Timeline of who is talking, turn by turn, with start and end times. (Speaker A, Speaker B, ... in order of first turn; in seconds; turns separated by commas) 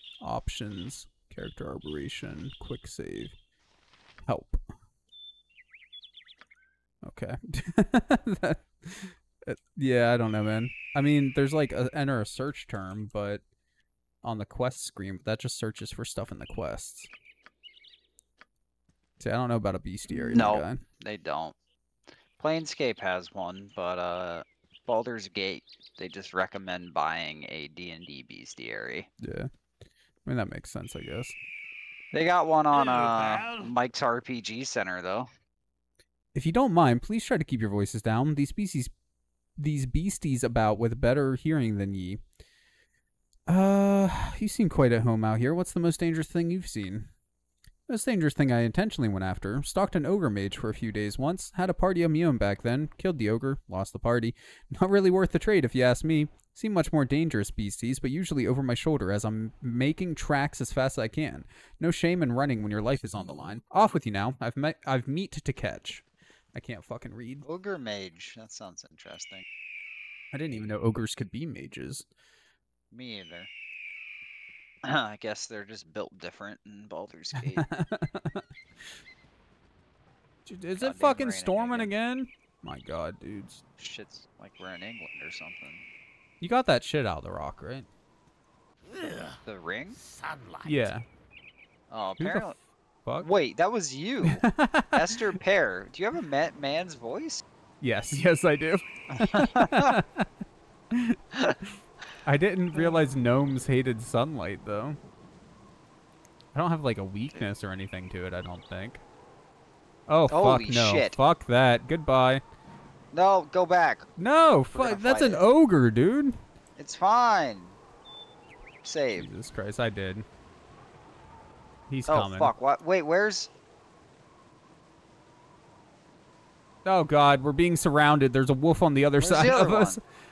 Speaker A: 0.2-3.3, Speaker A: 4.2-4.6, Speaker A: 7.0-13.4, Speaker A: 14.2-17.1, Speaker A: 19.2-20.8, Speaker B: 20.1-21.6, Speaker B: 22.4-29.1, Speaker A: 29.2-29.5, Speaker A: 30.2-31.4, Speaker B: 32.1-35.3, Speaker C: 32.7-33.6, Speaker A: 36.3-38.9, Speaker A: 39.6-42.2, Speaker A: 43.5-47.1, Speaker A: 47.9-67.4, Speaker B: 67.4-69.4, Speaker A: 70.3-72.1, Speaker B: 72.9-73.5, Speaker B: 74.8-77.7, Speaker A: 77.3-78.4, Speaker A: 80.5-83.6, Speaker B: 80.8-81.9, Speaker B: 83.8-85.8, Speaker A: 86.4-87.9, Speaker C: 88.9-89.4, Speaker B: 89.4-90.0, Speaker C: 90.0-90.9, Speaker A: 90.6-91.0, Speaker B: 91.9-92.6, Speaker A: 92.2-93.3, Speaker B: 93.2-97.4, Speaker A: 94.2-95.2, Speaker A: 97.8-100.3, Speaker B: 99.1-100.0, Speaker A: 100.9-101.2, Speaker A: 102.2-105.0, Speaker A: 106.5-109.0, Speaker A: 110.1-112.4, Speaker B: 110.3-111.2, Speaker B: 113.1-114.1, Speaker A: 114.2-116.4, Speaker B: 114.7-115.4, Speaker B: 116.8-117.8, Speaker B: 118.8-119.3, Speaker A: 119.2-120.2, Speaker A: 121.9-122.5, Speaker B: 122.1-123.5, Speaker A: 126.8-130.0, Speaker B: 129.2-130.0